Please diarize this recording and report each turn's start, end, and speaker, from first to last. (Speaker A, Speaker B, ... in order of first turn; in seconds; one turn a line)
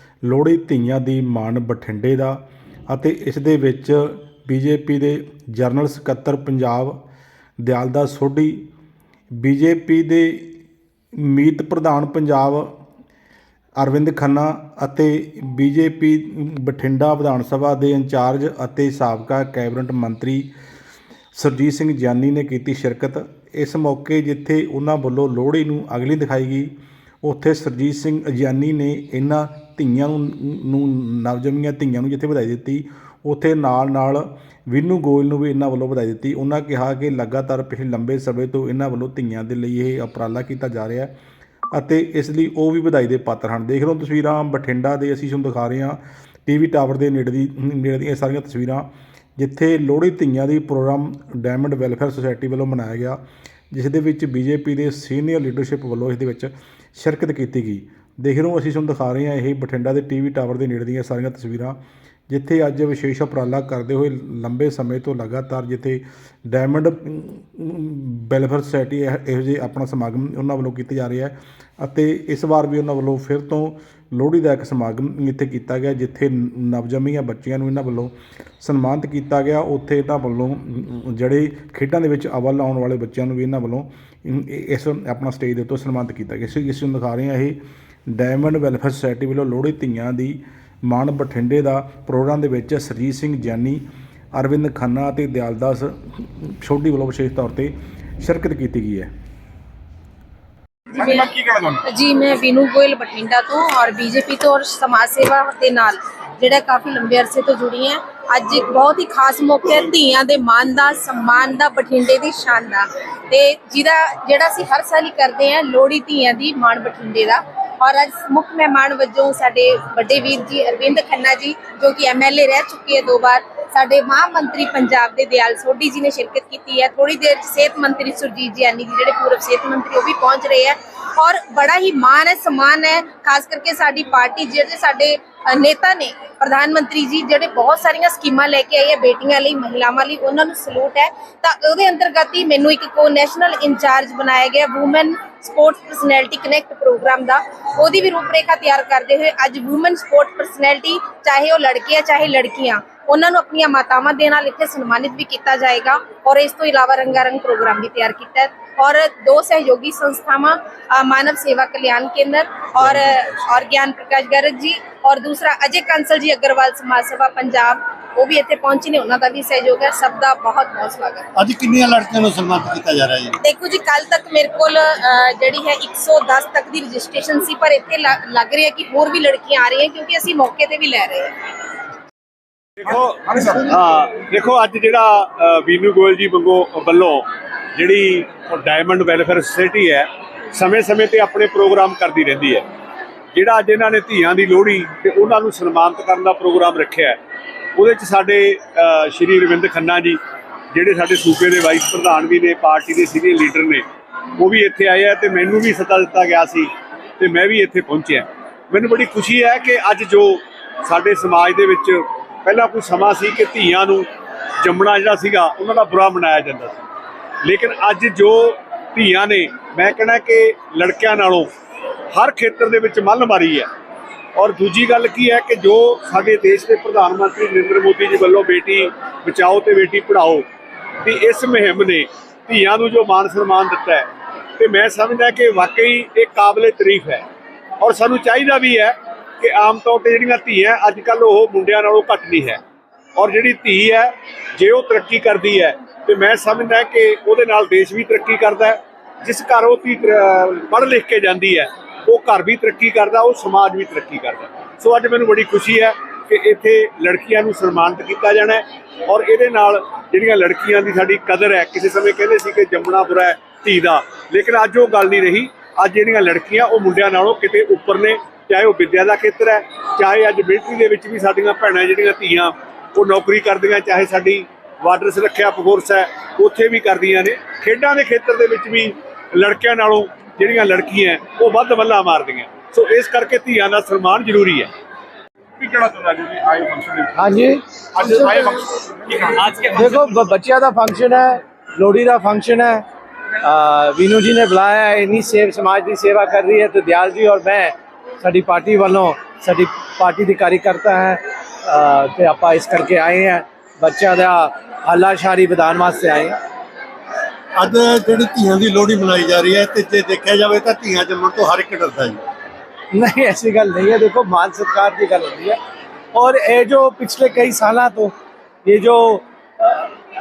Speaker A: 0.2-7.0
Speaker A: 7.6-8.6
Speaker A: 9.4-10.4
Speaker A: 11.2-12.7
Speaker A: 13.8-20.5
Speaker A: 21.4-26.7
Speaker A: 27.2-41.1
Speaker A: 41.7-53.2
Speaker A: 53.7-61.8
Speaker A: 62.3-87.6
Speaker A: 88.1-93.8
Speaker A: 94.3-99.1
Speaker B: 101.0-101.8
Speaker C: 101.0-101.2
Speaker C: 101.9-171.2
Speaker D: 171.3-173.4
Speaker C: 173.4-181.3
Speaker E: 182.8-192.7
Speaker E: 193.3-197.2
Speaker E: 197.7-200.2
Speaker E: 200.7-203.8
Speaker E: 204.4-214.1
Speaker E: 214.6-216.8
Speaker E: 217.4-221.5
Speaker E: 222.1-223.7
Speaker E: 224.3-230.4
Speaker E: 231.0-237.2
Speaker E: 237.8-242.6
Speaker E: 243.2-284.7
Speaker B: 285.6-287.3
Speaker F: 287.1-288.5
Speaker B: 287.9-289.9
Speaker E: 289.4-289.7
Speaker F: 289.7-292.8
Speaker F: 293.4-306.4
Speaker D: 307.6-312.2
Speaker F: 312.9-315.6
Speaker F: 316.1-318.1
Speaker F: 318.6-319.9